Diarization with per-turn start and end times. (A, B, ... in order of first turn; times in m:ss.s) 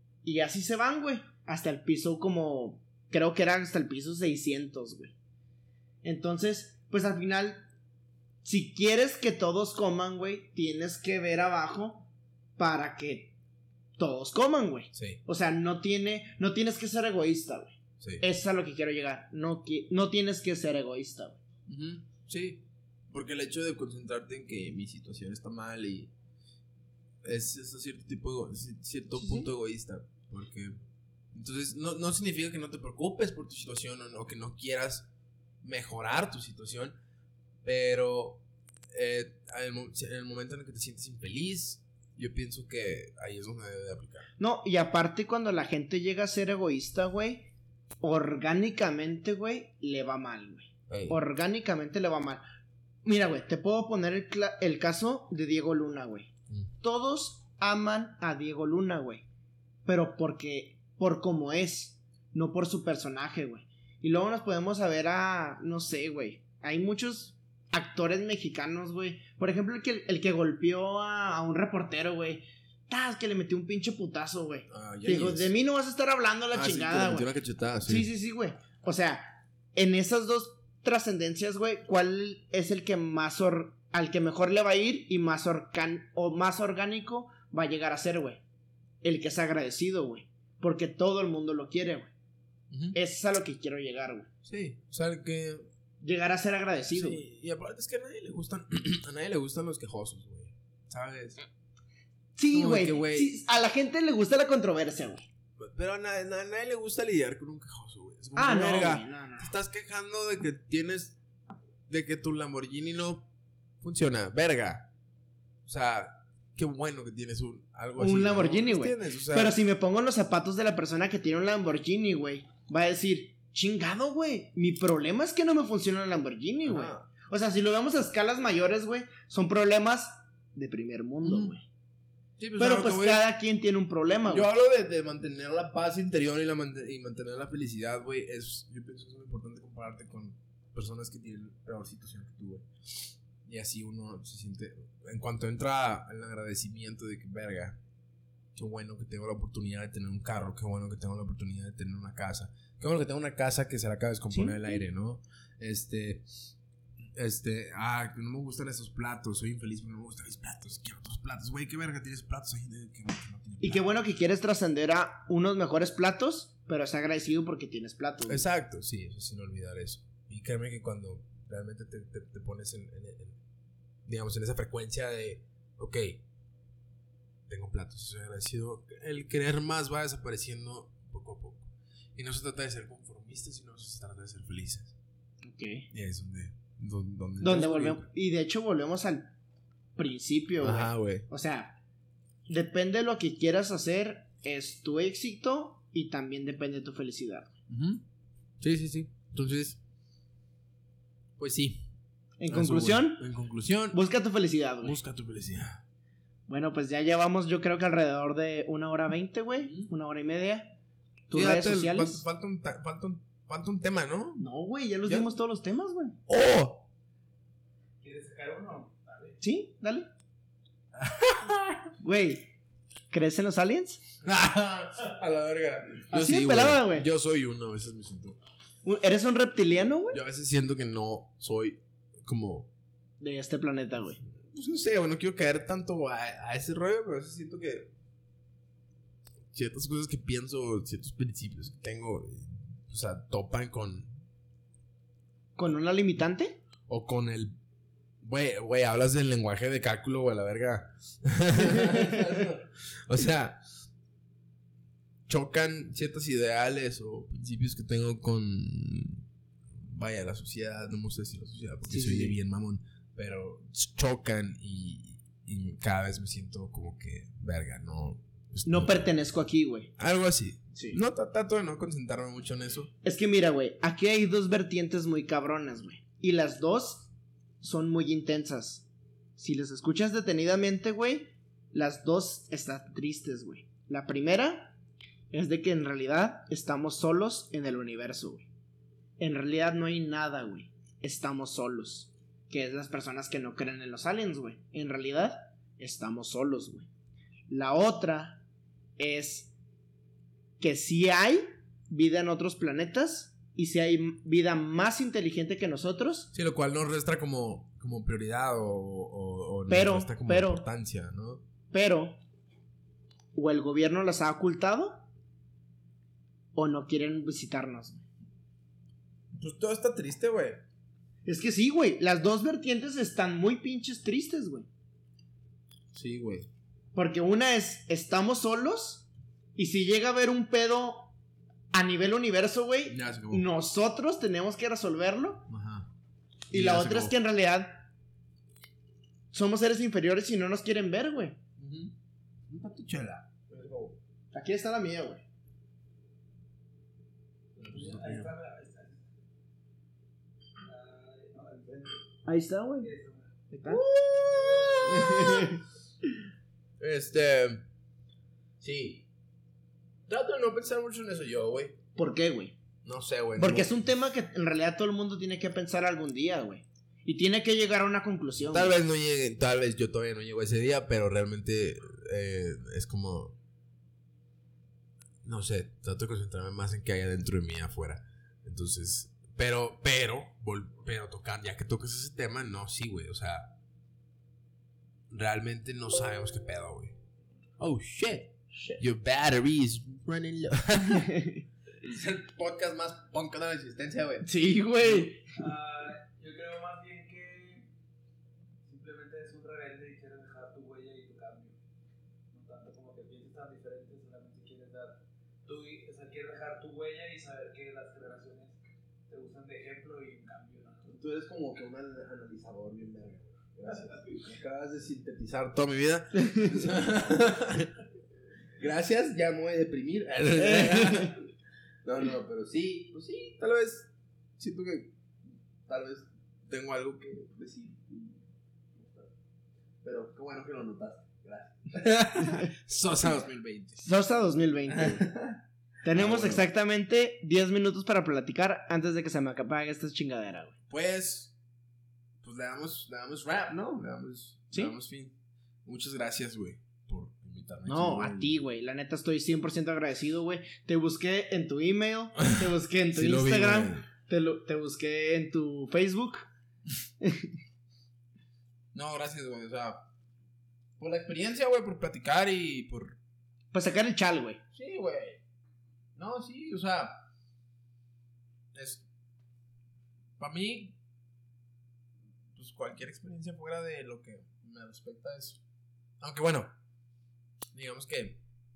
0:00.2-0:05.1 A
0:06.0-0:07.7 A
0:08.4-0:13.4 A
0:14.0-0:21.4 A
0:14.9-0:15.2 B
0:18.0-0:18.2 B
0:21.7-0:26.1 B
0:27.2-0:35.1 B
0:29.2-0:29.5 A
0:35.6-0:37.0 B
0:37.6-0:44.3 B
0:44.4-0:52.4 A
0:50.9-0:51.2 B
0:53.0-0:56.3 A
0:56.8-0:59.3 A
0:59.9-1:17.3 A
1:14.7-1:15.5 B
1:16.5-1:18.1 B
1:17.8-1:28.4 A
1:29.0-1:32.1 A
1:32.7-1:33.0 B
1:32.9-1:34.3 A
1:34.4-1:35.7 B
1:36.0-1:37.2 A
1:36.9-1:41.4 B
1:42.4-1:45.3 A
1:42.5-1:43.4 B
1:45.6-1:51.2 B
1:48.4-1:49.5 A
1:51.9-1:53.3 B
1:53.8-1:54.9 B
1:55.7-1:59.6 B
1:58.0-2:11.6 A
2:06.6-2:07.1 B
2:11.2-2:11.5 B
2:12.4-2:13.3 B
2:12.6-2:14.5 A
2:14.3-2:27.8 B
2:28.5-2:36.5 B
2:34.3-2:34.8 A
2:37.2-2:44.0 B
2:43.6-2:48.4 A
2:48.3-2:53.4 B
2:54.0-2:56.2 B
2:57.5-3:04.9 B
3:05.4-3:05.9 A
3:05.9-3:08.1 B
3:07.4-3:09.4 A
3:10.0-3:11.8 A
3:10.6-3:11.3 B
3:12.5-3:17.5 A
3:17.7-3:18.0 B
3:18.6-3:19.8 B
3:21.4-3:21.9 B
3:22.4-3:23.2 A
3:22.5-3:24.0 B
3:23.9-3:25.0 A
3:24.8-3:25.8 B
3:26.5-3:30.8 A
3:29.6-3:29.9 B
3:31.3-3:32.2 A
3:31.3-3:34.4 B
3:34.4-3:36.2 A
3:35.1-3:35.3 B
3:36.3-3:36.9 B
3:38.0-3:39.4 C
3:39.4-3:40.1 A
3:41.0-3:41.9 B
3:42.0-3:42.5 A
3:43.1-3:44.0 A
3:44.2-3:48.4 B
3:46.1-3:47.0 A
3:48.8-3:50.2 A
3:50.1-3:52.7 B
3:53.2-3:54.2 A
3:54.3-3:57.9 B
3:59.5-4:04.2 B
4:05.6-4:06.6 A
4:06.9-4:07.6 B
4:08.2-4:13.6 B
4:15.3-4:29.1 B
4:21.9-4:22.4 A
4:28.6-4:29.9 A
4:30.0-4:32.9 B
4:30.7-4:31.0 A
4:33.0-4:37.1 A
4:37.6-4:38.9 A
4:39.4-4:44.8 A
4:45.3-4:48.5 A
4:49.2-4:56.9 A
4:57.5-4:58.4 A
4:59.0-4:59.5 A
5:00.6-5:06.3 A
5:06.3-5:11.4 B
5:09.7-5:10.7 A
5:11.7-5:12.2 A
5:13.3-5:15.1 A
5:16.5-5:18.0 A
5:19.3-5:20.6 B
5:21.3-5:24.7 A
5:25.9-5:26.5 B
5:26.9-5:31.1 A
5:31.7-5:35.5 A
5:32.9-5:33.5 B
5:35.5-5:35.9 B
5:36.5-5:37.8 A
5:36.5-5:37.2 B
5:39.3-5:41.4 A
5:41.6-5:42.0 B
5:42.5-5:44.0 B
5:44.3-5:45.2 A
5:47.6-5:49.1 C
5:47.6-5:48.3 B
5:50.6-5:52.0 C
5:52.2-5:52.9 A
5:52.8-5:53.3 C
5:53.5-5:53.8 A
5:53.7-5:55.6 B
5:54.8-5:55.6 A
5:56.8-5:57.6 B
5:58.6-5:59.1 B
6:00.1-6:01.8 B
6:02.0-6:02.6 A
6:02.8-6:03.8 B
6:03.4-6:08.8 A
6:08.5-6:13.4 B
6:15.2-6:23.6 B
6:25.1-6:27.0 B
6:27.6-6:31.1 B
6:31.0-6:31.4 A
6:31.8-6:35.2 B
6:34.2-6:35.2 A
6:35.3-6:37.7 C
6:38.6-6:41.6 C
6:42.3-6:50.9 C
6:50.9-6:57.8 B
6:58.6-7:01.3 B
7:00.4-7:01.1 A
7:01.8-7:05.0 B
7:05.7-7:08.2 B
7:08.7-7:09.1 B
7:09.8-7:13.9 B
7:13.8-7:15.1 A
7:14.7-7:16.5 B
7:15.8-7:20.6 A
7:20.7-7:21.3 B
7:22.2-7:28.3 B
7:27.7-7:36.3 A
7:32.4-7:33.9 B
7:37.0-7:37.3 A
7:38.7-7:39.9 B
7:40.8-7:43.0 B
7:43.5-7:44.4 A
7:44.5-7:45.2 B
7:46.0-7:47.0 B
7:48.5-7:48.8 B
7:50.2-7:50.8 B
7:52.3-7:55.4 B
7:56.0-7:56.5 B
7:57.5-7:58.2 B